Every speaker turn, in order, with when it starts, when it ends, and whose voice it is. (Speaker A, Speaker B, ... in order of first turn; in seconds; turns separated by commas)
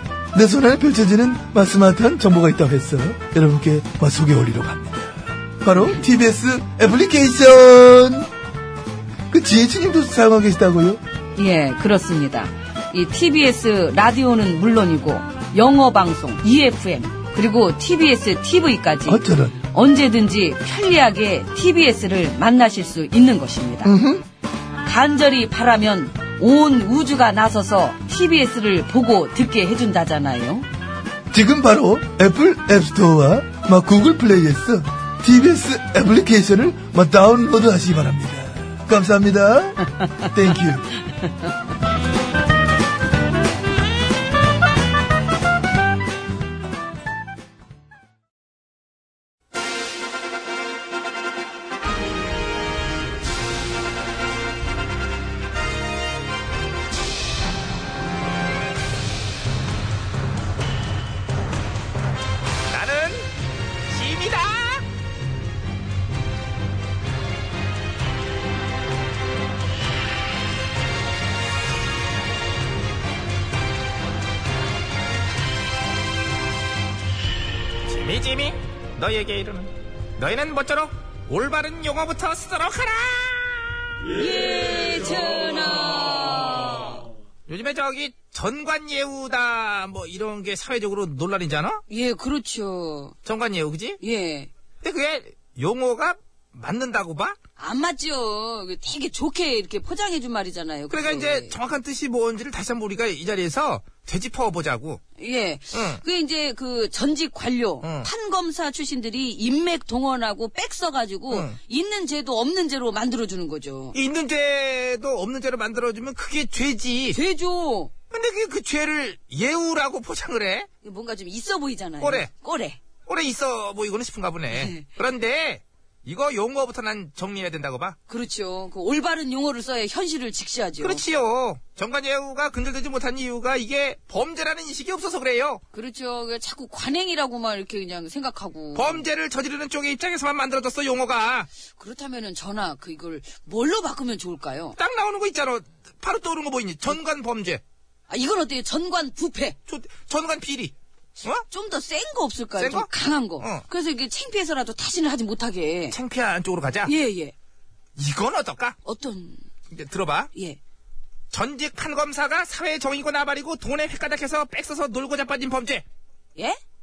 Speaker A: 0.3-8.3, Speaker A: 9.3-11.0, Speaker B: 11.3-23.9, Speaker A: 19.1-19.6, Speaker A: 23.8-24.2, Speaker B: 24.8-30.7, Speaker A: 31.3-40.9, Speaker C: 62.7-63.3, Speaker C: 63.9-64.8, Speaker C: 77.9-83.8, Speaker B: 84.0-87.0, Speaker C: 87.5-91.8, Speaker B: 91.9-93.2, Speaker C: 93.2-94.0, Speaker B: 94.0-94.5, Speaker C: 94.8-97.4, Speaker B: 97.6-101.5, Speaker C: 100.9-105.0, Speaker B: 105.2-114.0, Speaker C: 105.7-106.0, Speaker C: 107.8-108.1, Speaker C: 111.3-111.6, Speaker C: 113.9-117.2, Speaker B: 117.1-117.9, Speaker C: 118.1-120.7, Speaker B: 120.8-122.8, Speaker C: 122.0-122.3, Speaker C: 123.0-128.0, Speaker B: 124.5-124.9, Speaker B: 128.1-131.0, Speaker C: 130.8-135.6, Speaker B: 135.7-139.1, Speaker C: 138.7-141.5, Speaker B: 141.7-144.8, Speaker C: 144.8-147.6, Speaker B: 148.1-149.6, Speaker C: 149.7-151.4, Speaker B: 151.5-156.0, Speaker C: 152.6-152.9, Speaker C: 153.4-153.6, Speaker C: 155.9-156.9, Speaker B: 156.8-157.3, Speaker C: 157.9-158.8, Speaker B: 158.8-159.5, Speaker C: 159.7-160.3, Speaker B: 160.3-160.6, Speaker C: 161.3-165.8